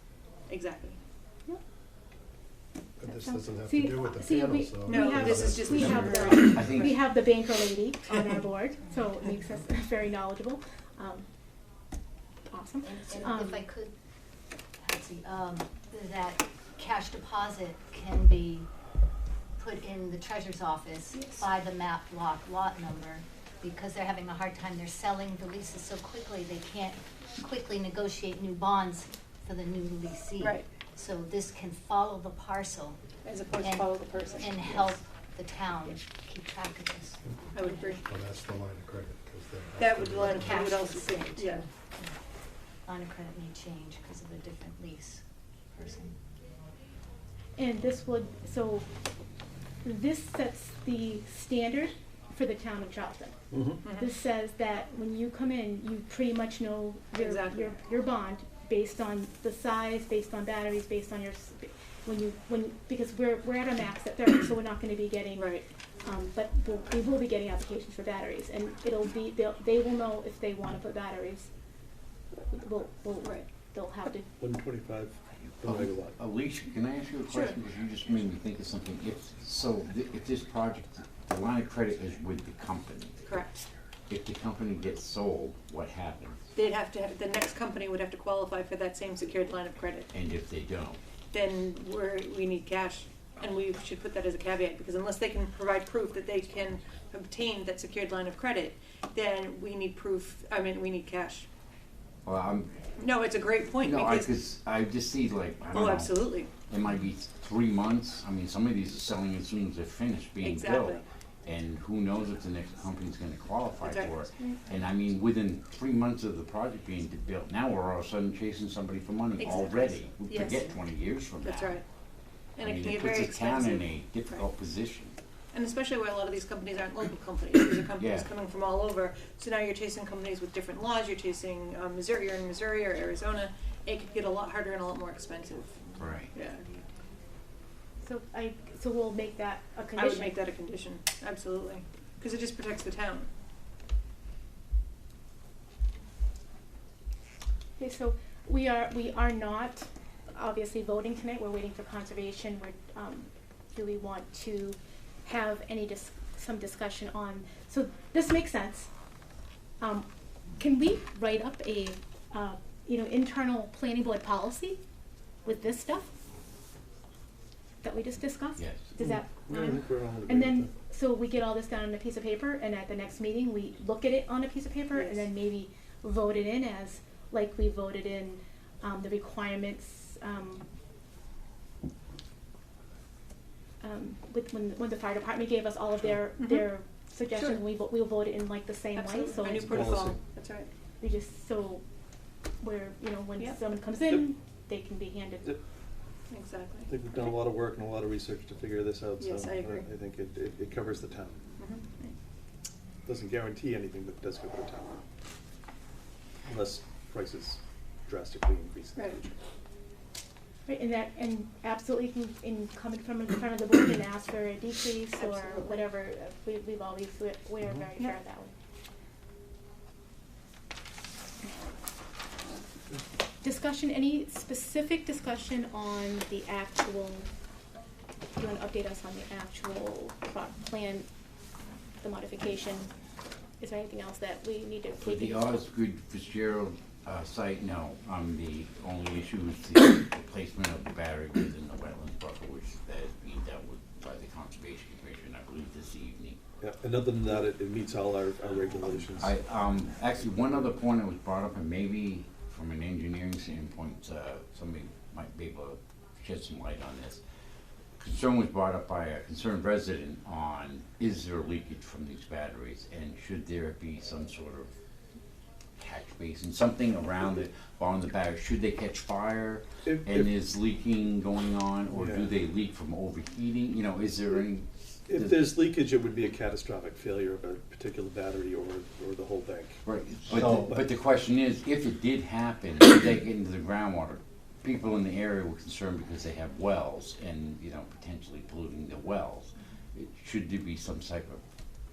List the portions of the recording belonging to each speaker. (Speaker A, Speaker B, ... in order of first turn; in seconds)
Speaker A: 0.5-1.0, 4.8-7.0, 30.4-30.7, 33.2-35.0, 37.5-38.0, 39.8-41.7, 57.1-57.8, 65.3-65.7, 77.3-77.6, 83.3-83.7, 86.5-90.1, 91.3-101.5, 103.0-104.3, 105.7-106.5, 110.4-111.0, 113.8-114.2, 119.4-120.7, 121.4-121.8, 122.6-124.5, 125.5-136.7, 140.0-143.3, 174.9-175.3, 186.4-186.7, 187.3-187.6, 189.0-190.7, 196.3-197.3, 199.2-199.9, 201.6-201.9, 209.0-209.2, 215.1-215.9
Speaker B: 3.0-6.4, 38.1-40.5
Speaker C: 3.0-11.3, 12.5-13.7, 47.6-48.9, 49.8-53.4, 53.9-71.5, 72.5-74.3, 138.0-140.3, 147.8-158.9, 159.8-164.8, 165.4-166.1, 167.8-180.7, 183.8-190.1, 191.0-191.8, 192.6-195.6, 210.7-218.5, 223.4-227.3, 228.3-231.1, 232.0-232.9, 233.6-235.6
Speaker D: 5.8-7.0, 75.4-83.2, 84.1-86.4, 90.1-91.0, 102.2-102.8, 103.8-121.8, 122.6-125.2, 128.0-128.3, 136.0-136.3, 168.6-168.9, 235.0-246.4, 249.1-257.2, 258.0-264.7, 265.8-275.4, 279.9-291.4
Speaker E: 12.8-13.9, 14.8-18.7, 19.6-33.0, 33.6-38.1, 40.1-42.1, 42.9-46.2
Speaker F: 53.5-53.8, 74.4-76.2, 169.0-170.7, 189.6-190.2, 196.9-201.4, 203.1-205.0, 206.4-209.3, 246.6-249.4, 250.2-250.7, 269.9-270.3, 271.9-272.3, 275.1-280.9